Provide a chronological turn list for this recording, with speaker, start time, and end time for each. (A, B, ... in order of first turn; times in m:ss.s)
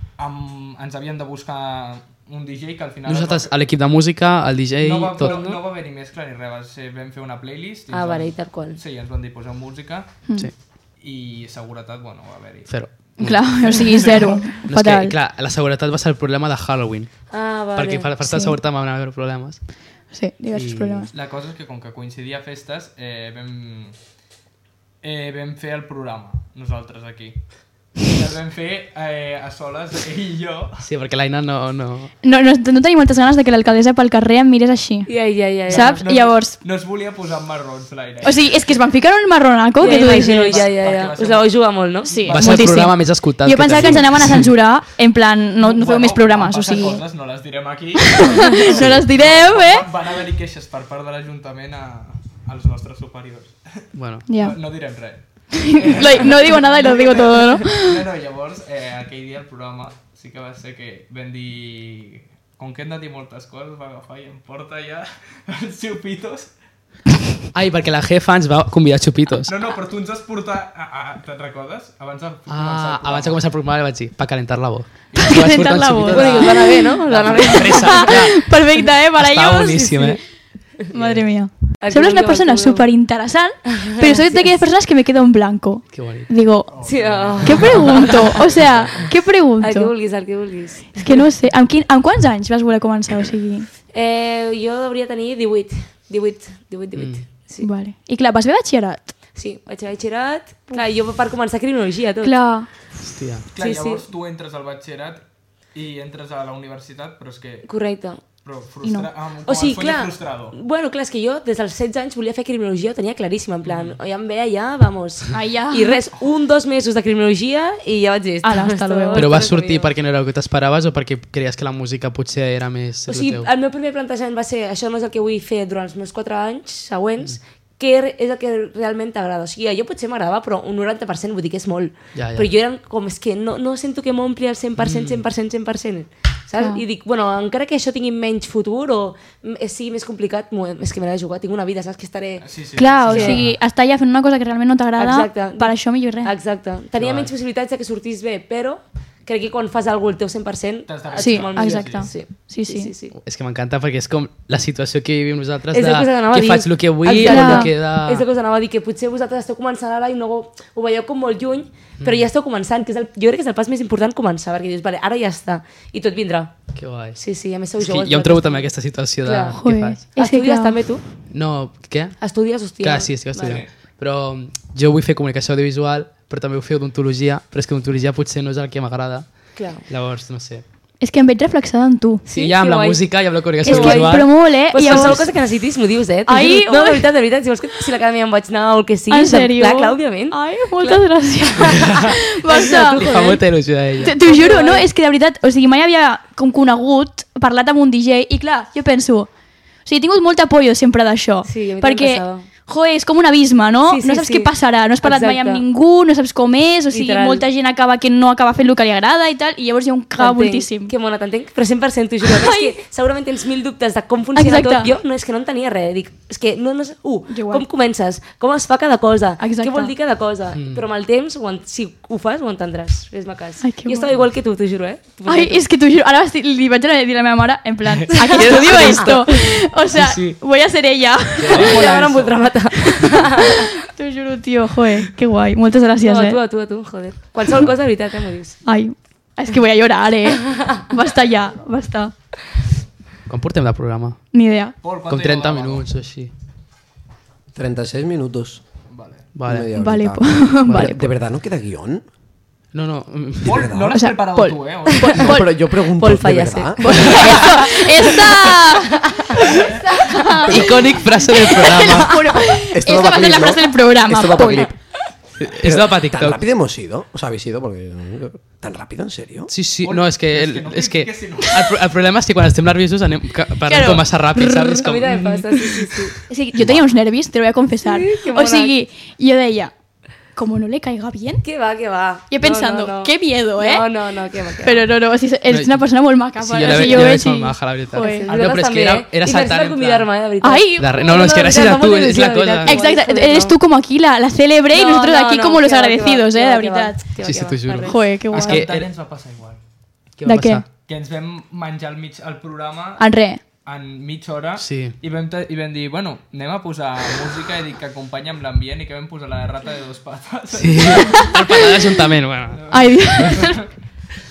0:00.2-0:03.5 A
0:03.0-0:05.4 B
0:04.8-0:10.2 A
0:05.2-0:05.6 C
0:07.9-0:08.8 C
0:11.0-0:12.8 A
0:12.7-0:13.9 B
0:13.2-0:15.1 D
0:13.6-0:14.4 A
0:14.6-0:19.7 B
0:17.3-0:18.1 C
0:18.2-0:18.6 D
0:20.1-0:21.1 D
0:20.5-0:21.1 B
0:21.1-0:23.9 A
0:25.0-0:27.4 A
0:27.9-0:30.8 A
0:30.8-0:32.1 B
0:32.2-0:36.6 D
0:35.0-0:36.0 C
0:35.7-0:38.5 A
0:38.2-0:40.7 D
0:39.8-0:42.3 C
0:39.8-0:41.5 A
0:42.0-0:47.0 D
0:42.1-0:42.8 A
0:42.3-0:44.5 B
0:45.6-1:06.5 A
0:48.1-0:49.8 D
0:48.7-0:49.0 B
0:53.9-0:54.2 B
0:54.3-0:54.6 D
0:55.5-0:58.0 D
1:07.5-1:09.5 B
1:09.4-1:13.4 A
1:12.5-1:18.5 B
1:15.1-1:15.7 A
1:15.2-1:16.8 D
1:16.1-1:18.2 C
1:17.0-1:17.6 A
1:17.4-1:20.2 D
1:19.1-1:20.2 B
1:20.9-1:26.7 D
1:20.9-1:21.2 B
1:21.8-1:22.9 C
1:23.8-1:24.6 C
1:25.9-1:26.3 B
1:26.7-1:29.1 A
1:26.8-1:28.4 C
1:27.4-1:29.9 D
1:29.6-1:31.2 C
1:31.0-1:33.7 D
1:33.9-1:37.7 C
1:36.9-1:37.2 B
1:37.6-1:39.1 D
1:39.3-1:42.3 C
1:42.2-1:42.7 D
1:43.0-1:43.4 B
1:43.5-1:45.2 A
1:43.6-1:44.0 C
1:45.7-1:47.7 A
1:47.6-1:48.2 C
1:48.3-1:50.6 A
1:48.8-1:49.1 D
1:49.4-1:59.9 C
1:53.6-1:54.0 A
1:55.3-1:56.0 D
1:58.4-1:59.3 D
1:59.1-2:03.5 B
2:03.1-2:22.4 C
2:12.1-2:12.5 B
2:14.8-2:15.2 B
2:16.6-2:16.8 D
2:22.4-2:23.4 A
2:22.8-2:26.3 D
2:23.1-2:23.4 C
2:23.1-2:23.6 B
2:25.0-2:33.1 C
2:27.0-2:27.3 B
2:30.9-2:32.1 A
2:31.2-2:32.9 D
2:33.2-2:38.2 B
2:35.7-2:46.6 C
2:37.1-2:37.7 D
2:42.0-2:42.3 B
2:46.7-2:47.2 B
2:47.2-2:48.7 C
2:47.8-2:50.0 B
2:49.2-2:49.6 C
2:49.5-2:50.8 D
2:50.1-2:51.0 C
2:51.3-2:52.2 B
2:52.2-2:53.6 C
2:52.8-3:00.6 B
2:53.4-2:53.7 A
2:59.6-2:59.8 C
3:01.0-3:02.2 D
3:02.2-3:13.4 C
3:02.3-3:05.3 B
3:03.6-3:05.3 D
3:06.2-3:07.1 D
3:09.1-3:13.3 D
3:11.8-3:12.2 B
3:12.8-3:14.1 B
3:14.0-3:19.3 D
3:14.0-3:14.8 C
3:19.8-3:30.9 D
3:21.4-3:22.4 C
3:23.9-3:25.6 C
3:26.9-3:27.4 C
3:30.2-3:45.6 C
3:32.2-3:32.7 D
3:34.3-3:34.9 D
3:37.3-3:37.6 D
3:39.4-3:39.9 D
3:40.5-3:40.8 B
3:43.6-3:44.1 D
3:45.2-3:52.0 D
3:47.9-3:50.4 B
3:48.1-3:49.5 C
3:51.4-3:52.1 B
3:51.5-3:53.7 C
3:51.5-3:52.4 A
3:52.8-3:56.4 D
3:56.0-3:58.6 C
3:58.6-4:02.1 D
4:03.3-4:04.2 B
4:04.3-4:04.8 D
4:04.8-4:05.9 A
4:05.1-4:06.3 B
4:07.5-4:08.6 E
4:08.9-4:09.2 A
4:09.3-4:09.7 B
4:09.4-4:12.0 E
4:09.7-4:11.0 D
4:10.7-4:11.0 B
4:12.7-4:13.7 B
4:13.4-4:15.3 A
4:13.5-4:14.0 E
4:13.9-4:15.6 D
4:15.1-4:15.4 C
4:15.2-4:17.5 E
4:15.9-4:18.5 C
4:16.8-4:24.7 D
4:19.1-4:20.6 C
4:19.5-4:19.9 A
4:20.5-4:22.3 B
4:22.5-4:24.7 E
4:25.4-4:26.4 B
4:25.6-4:29.5 E
4:29.5-4:36.1 B
4:29.8-4:31.8 A
4:33.7-4:34.8 D
4:34.7-4:36.2 C
4:36.3-4:39.7 D
4:37.8-4:38.7 C
4:40.3-4:41.4 D
4:41.4-4:44.9 C
4:42.3-4:43.9 D
4:44.6-4:48.3 D
4:45.5-4:45.8 B
4:46.4-4:50.1 B
4:46.7-4:47.2 C
4:47.9-4:53.6 C
4:50.4-4:51.2 D
4:50.8-4:52.8 B
4:52.6-4:57.0 D
4:54.7-4:58.0 C
4:57.2-4:58.9 B
4:57.8-4:58.7 D
4:58.3-4:59.6 A
5:00.2-5:00.6 B
5:00.2-5:00.6 D
5:00.8-5:03.1 A
5:03.0-5:03.4 D
5:03.6-5:11.6 A
5:04.6-5:04.9 B
5:10.5-5:13.3 B
5:12.5-5:13.7 A
5:12.7-5:13.6 D